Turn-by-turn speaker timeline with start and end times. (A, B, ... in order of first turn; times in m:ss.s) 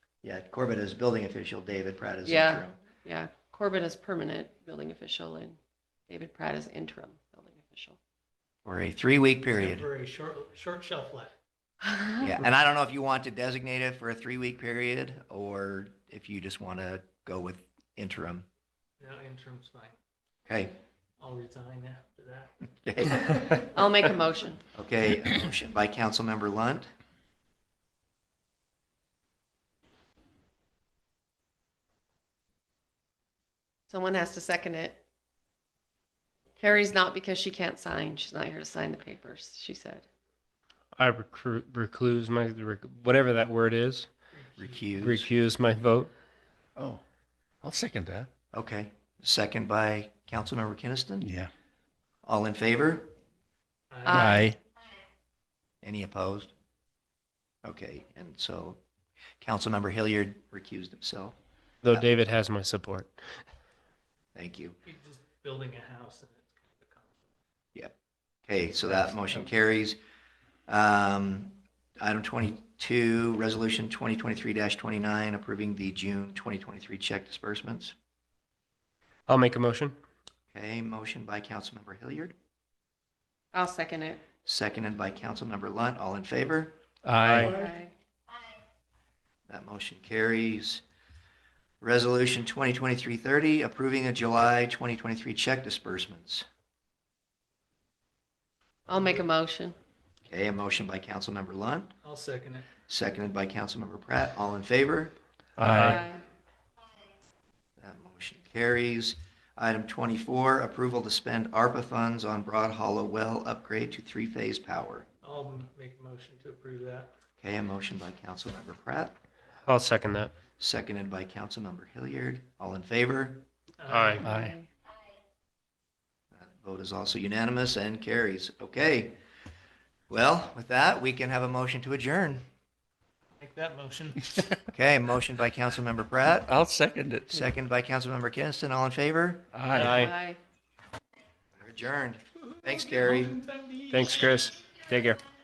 0:00.2-0:02.8 A
0:02.2-0:08.0 B
0:08.6-0:09.8 A
0:09.5-0:11.3 C
0:11.8-0:12.3 B
0:12.2-0:18.5 A
0:19.0-0:19.9 C
0:20.5-0:20.8 A
0:21.2-0:22.5 C
0:22.8-0:23.7 A
0:23.7-0:24.6 B
0:24.7-0:26.9 A
0:33.9-0:35.0 B
0:36.6-0:40.0 B
0:41.0-0:44.1 D
0:44.3-0:44.9 C
0:44.6-0:45.3 A
0:45.0-0:46.1 D
0:46.8-0:47.0 E
0:47.6-0:48.3 E
0:48.5-0:51.3 A
0:51.2-0:51.5 E
0:52.2-0:53.1 A
0:53.9-0:54.5 C
0:54.1-0:54.5 B
0:54.1-0:54.6 E
0:55.8-0:56.5 A
0:57.6-0:58.8 A
0:59.4-1:01.4 A
1:01.8-1:03.1 D
1:04.3-1:04.8 A
1:04.8-1:07.2 C
1:08.5-1:10.0 A
1:08.8-1:09.4 C
1:10.7-1:17.9 A
1:19.3-1:19.9 D
1:20.5-1:22.3 A
1:23.5-1:24.2 B
1:24.4-1:26.8 A
1:27.0-1:27.7 E
1:27.1-1:27.6 D
1:27.4-1:27.9 B
1:29.5-1:30.8 A
1:31.8-1:36.4 A
1:38.9-1:39.7 B
1:40.3-1:41.9 A
1:42.0-1:42.6 C
1:42.9-1:45.1 A
1:45.6-1:46.0 E
1:45.6-1:46.0 D
1:45.7-1:46.2 B
1:47.8-1:55.1 A
1:55.2-1:57.1 C
1:57.4-1:59.2 A
1:59.7-2:00.3 D
2:00.6-2:03.4 A
2:03.8-2:04.2 C
2:03.9-2:04.3 D
2:04.2-2:04.7 B
2:04.2-2:04.5 E
2:06.3-2:09.2 A
2:10.1-2:12.4 A
2:13.4-2:14.5 C
2:14.7-2:16.5 A
2:16.5-2:17.4 E
2:17.3-2:19.5 A
2:19.5-2:20.1 E
2:19.7-2:20.1 D
2:19.8-2:20.4 B
2:21.6-2:23.4 A
2:22.6-2:24.3 C
2:23.9-2:25.2 D